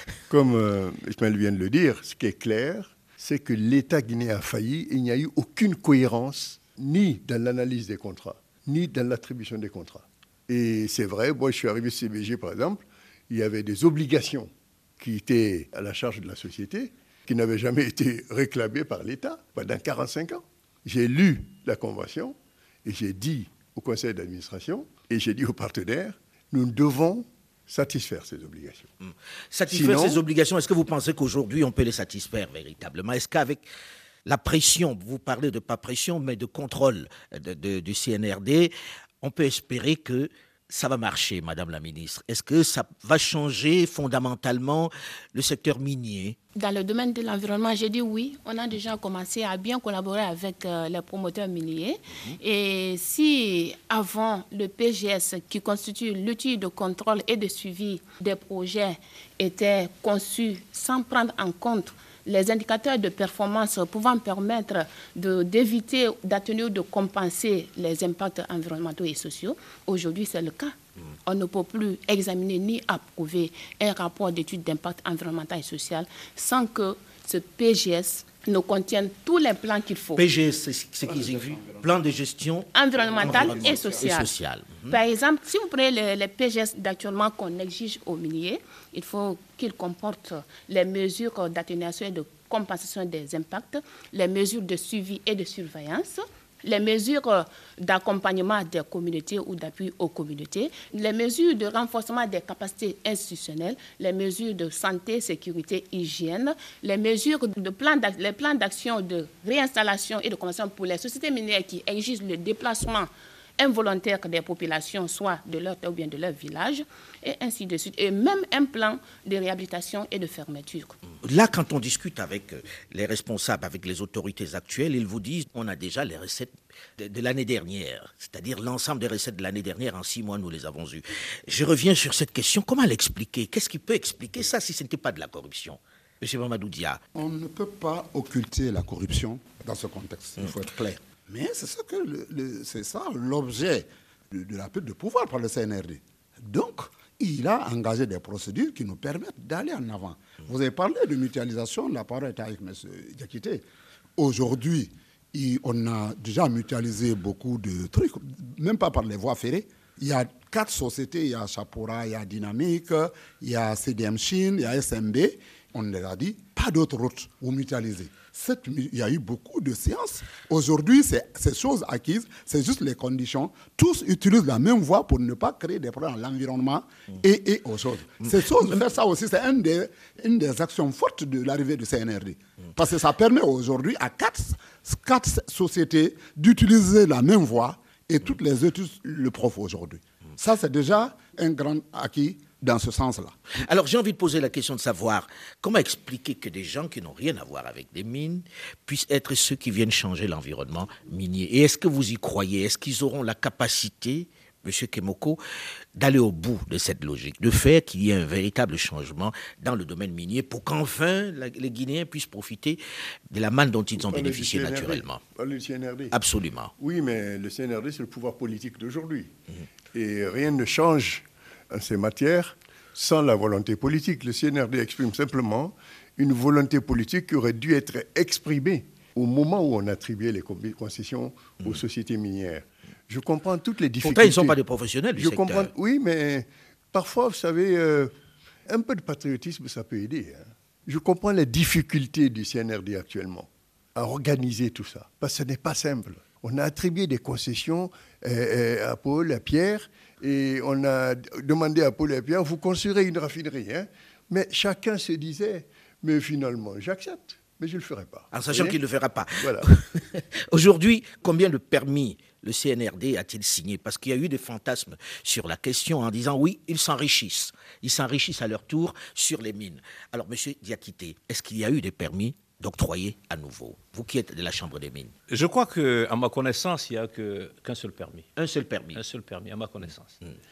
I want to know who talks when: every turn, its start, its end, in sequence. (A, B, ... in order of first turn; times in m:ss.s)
0:00.3-0:28.9 A
0:29.0-0:33.6 B
0:29.7-0:30.2 A
0:34.2-0:46.4 B
0:46.6-1:10.7 C
0:52.1-0:52.4 B
1:11.2-1:20.2 C
1:20.2-1:25.0 B
1:22.7-1:24.3 C
1:24.9-2:00.9 C
2:01.2-2:17.0 B
2:17.1-2:33.6 D
2:34.2-3:13.3 D
3:13.6-3:25.4 B
3:26.0-3:32.8 B
3:33.3-3:35.2 B
3:34.0-3:36.1 A
3:36.1-3:36.7 B
3:36.8-3:39.3 A
3:39.9-3:54.6 A
3:54.0-3:55.7 B
3:55.2-3:58.1 A
3:58.7-4:18.8 A
4:18.3-4:35.1 B
4:19.4-4:19.6 A
4:35.3-4:38.3 E
4:38.4-4:39.0 B
4:38.9-4:40.2 E